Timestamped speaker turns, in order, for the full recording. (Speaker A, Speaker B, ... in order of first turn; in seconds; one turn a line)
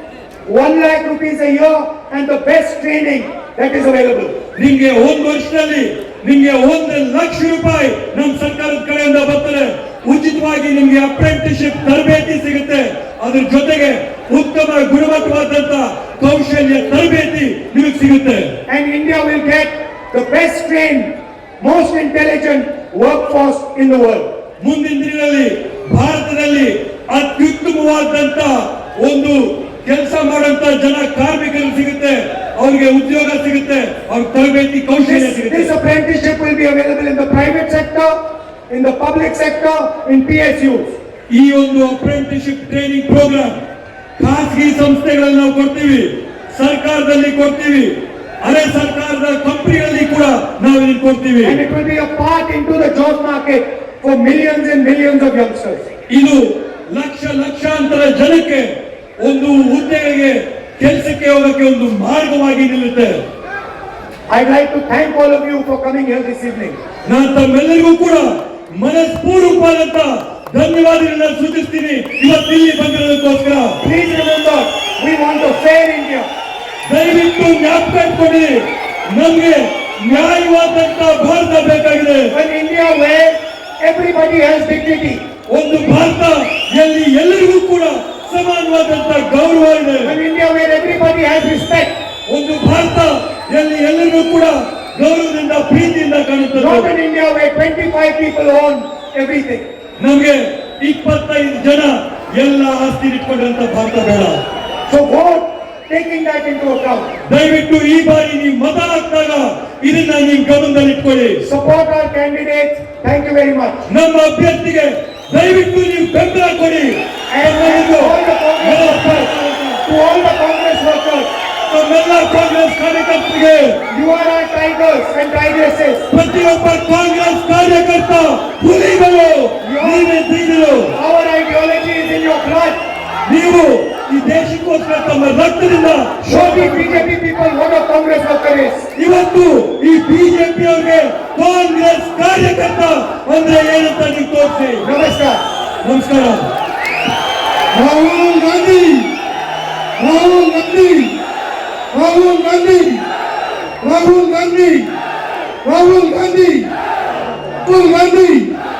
Speaker A: 0.5-4.4
Speaker B: 4.5-18.6
Speaker A: 18.7-24.3
Speaker B: 24.6-35.7
Speaker A: 34.9-41.0
Speaker B: 41.3-43.6
Speaker B: 44.2-51.6
Speaker A: 51.4-55.9
Speaker B: 56.1-63.2
Speaker A: 64.3-66.8
Speaker B: 67.0-73.8
Speaker A: 73.8-76.3
Speaker B: 76.8-82.3
Speaker A: 82.3-85.2
Speaker B: 85.5-90.2
Speaker A: 90.0-91.9
Speaker B: 92.3-96.9
Speaker A: 96.5-99.7
Speaker B: 100.0-104.4
Speaker A: 104.9-107.1
Speaker B: 107.2-111.4
Speaker A: 111.4-113.8
Speaker B: 113.9-119.8
Speaker A: 117.3-119.3
Speaker A: 119.8-121.3
Speaker B: 121.7-123.8
Speaker A: 123.9-126.0
Speaker B: 126.1-130.9
Speaker A: 129.6-130.1
Speaker A: 130.9-132.8
Speaker B: 133.2-137.1
Speaker A: 136.2-138.9
Speaker B: 138.9-144.8
Speaker A: 144.8-145.4
Speaker B: 145.8-146.5
Speaker C: 147.7-149.1
Speaker C: 150.0-151.2
Speaker C: 151.9-153.1
Speaker C: 153.8-154.9
Speaker C: 155.6-156.7
Speaker C: 157.6-158.6